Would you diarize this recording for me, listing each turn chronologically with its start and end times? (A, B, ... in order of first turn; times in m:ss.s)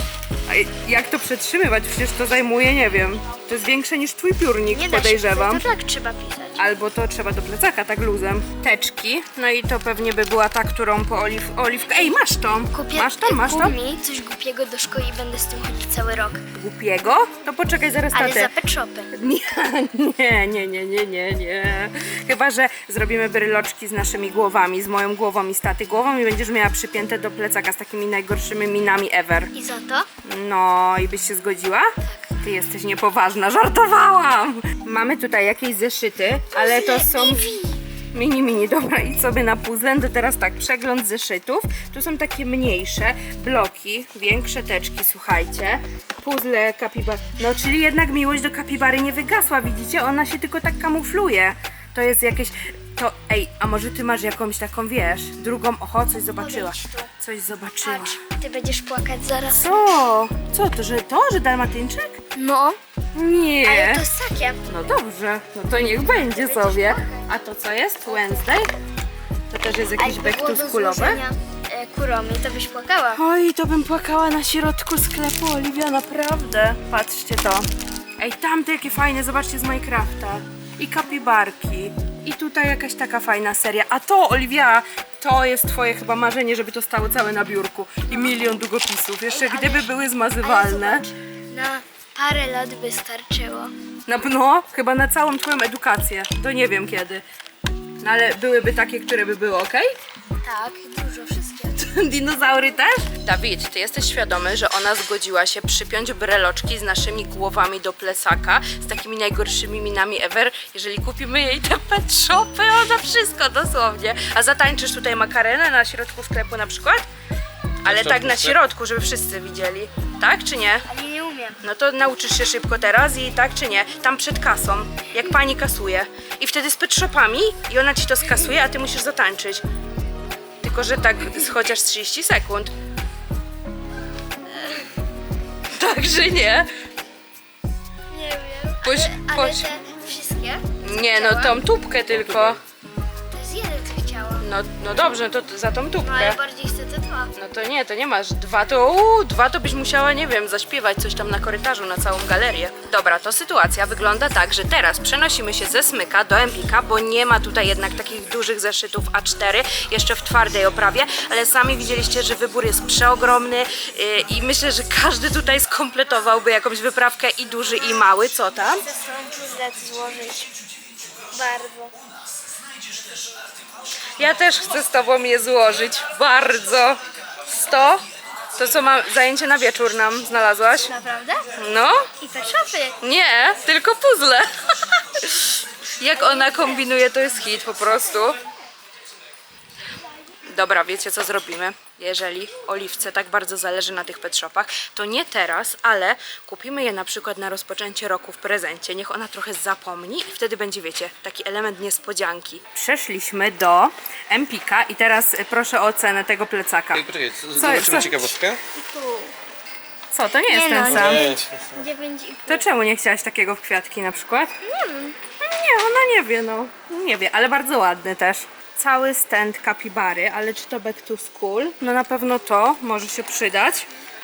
0:00.5-0:05.6 A
0:04.7-0:06.7 B
0:06.6-0:13.7 A
0:11.9-0:12.2 B
0:12.7-0:16.4 B
0:16.5-0:18.5 A
0:18.1-0:19.1 B
0:19.1-0:29.5 A
0:29.6-0:30.1 B
0:30.2-0:37.5 A
0:36.5-0:37.8 B
0:38.1-0:58.2 A
0:56.4-0:57.1 B
0:57.8-1:00.0 B
0:59.5-1:02.2 A
1:02.4-1:02.8 B
1:03.2-1:04.0 A
1:03.7-1:04.6 B
1:04.7-1:08.7 A
1:05.8-1:07.3 B
1:08.1-1:08.6 B
1:09.5-1:11.2 A
1:10.0-1:13.2 B
1:13.2-1:17.7 A
1:18.2-1:31.1 A
1:29.3-1:29.9 B
1:30.4-1:33.7 B
1:34.1-1:37.2 A
1:38.0-1:40.0 A
1:40.4-1:41.8 B
1:41.8-1:57.1 A
1:57.8-2:00.9 A
1:57.8-1:58.6 C
2:00.9-2:01.6 B
2:01.6-2:09.6 A
2:10.6-2:12.7 A
2:14.6-2:14.8 B
2:15.7-2:16.7 A
2:18.1-2:21.6 B
2:18.8-2:19.7 A
2:20.8-2:22.6 A
2:22.1-2:22.6 C
2:23.3-2:24.5 B
2:24.4-2:26.4 A
2:26.0-2:27.3 B
2:27.4-2:48.8 A
2:48.8-2:50.5 B
2:51.3-2:51.9 B
2:54.2-2:58.0 A
2:58.6-3:00.9 A
3:00.9-3:01.5 B
3:01.6-3:02.1 A
3:02.2-3:03.0 B
3:03.0-3:08.4 A
3:06.2-3:06.8 B
3:10.5-3:27.0 A
3:26.9-3:28.6 C
3:27.6-3:28.3 A
3:28.8-3:29.3 B
3:30.1-3:31.2 A
3:30.5-3:32.7 B
3:30.8-3:31.9 C
3:32.5-3:34.5 A
3:34.6-3:35.2 B
3:35.4-3:43.9 A